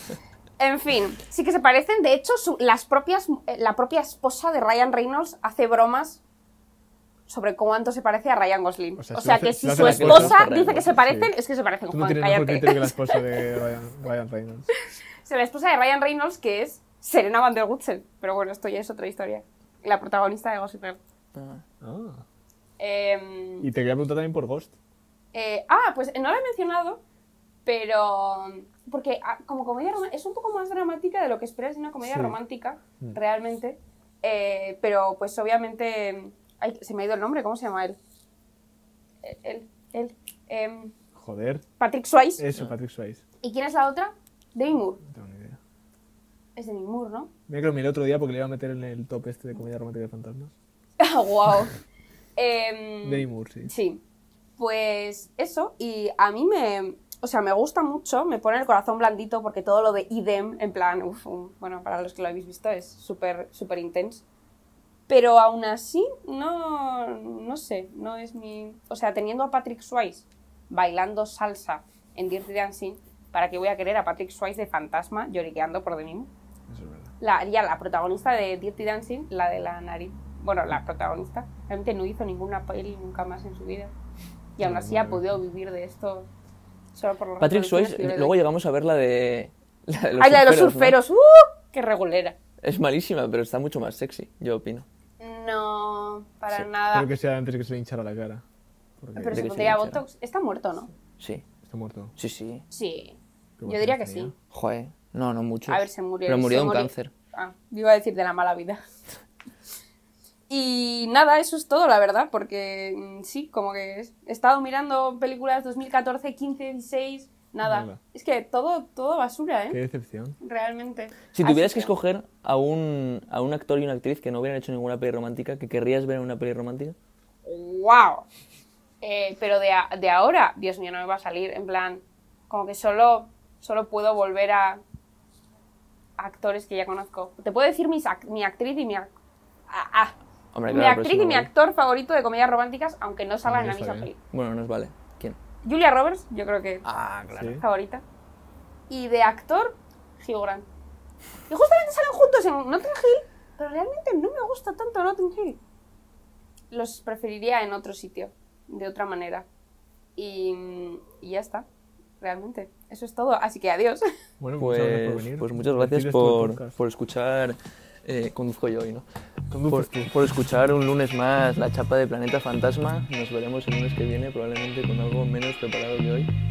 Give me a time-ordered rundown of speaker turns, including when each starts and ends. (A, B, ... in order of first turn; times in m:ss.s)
0:00.6-0:06.2 A
0:07.3-0:13.4 A
0:09.0-0:11.3 B
0:09.7-0:11.0 C
0:11.9-0:14.7 B
0:15.2-0:21.0 A
0:21.3-0:21.6 C
0:21.8-0:22.2 B
0:22.8-0:23.7 A
0:23.6-0:24.7 B
0:25.3-0:27.0 A
0:27.6-0:38.0 A
0:32.0-0:32.4 B
0:39.2-0:40.9 A
0:41.1-0:41.6 B
0:41.8-0:42.4 A
0:42.4-0:43.2 B
0:43.4-0:45.0 A
0:45.0-0:45.6 B
0:46.6-0:47.3 A
0:47.5-0:50.5 B
0:51.0-0:51.8 A
0:52.4-0:54.0 A
0:53.0-0:53.7 B
0:54.6-1:04.2 A
1:05.1-1:16.3 A
1:16.7-1:17.1 B
1:17.2-1:23.9 A
1:24.6-1:26.3 A
1:24.6-1:25.4 B
1:26.9-1:28.3 A
1:27.4-1:31.0 C
1:30.2-1:32.4 A
1:32.6-1:34.8 C
1:35.2-1:37.1 A
1:36.8-1:38.4 B
1:39.0-1:39.4 B
1:39.2-1:40.9 A
1:39.3-1:40.0 C
1:41.2-1:41.4 C
1:41.6-1:42.1 B
1:42.2-1:42.7 C
1:42.7-1:44.3 A
1:43.6-1:44.3 B
1:44.5-1:47.1 C
1:45.7-1:48.8 A
1:50.5-1:59.8 A
1:57.6-1:58.0 B
1:59.7-2:00.4 B
2:00.4-2:01.9 A
2:01.3-2:07.0 C
2:07.4-2:08.2 A
2:09.0-2:14.8 A
2:16.2-2:19.1 A
2:19.7-2:20.1 A
2:20.5-2:21.5 C
2:20.7-2:24.2 A
2:23.4-2:24.1 B
2:24.3-2:25.4 C
2:25.6-2:26.8 A
2:26.8-2:27.5 C
2:27.4-2:27.6 B
2:27.4-2:28.0 A
2:28.9-2:30.6 A
2:31.5-2:35.6 A
2:36.7-2:39.4 A
2:40.2-2:41.6 A
2:42.2-2:44.0 A
2:44.4-2:46.7 B
2:44.6-2:49.0 C
2:49.5-2:50.2 B
2:49.7-2:56.3 C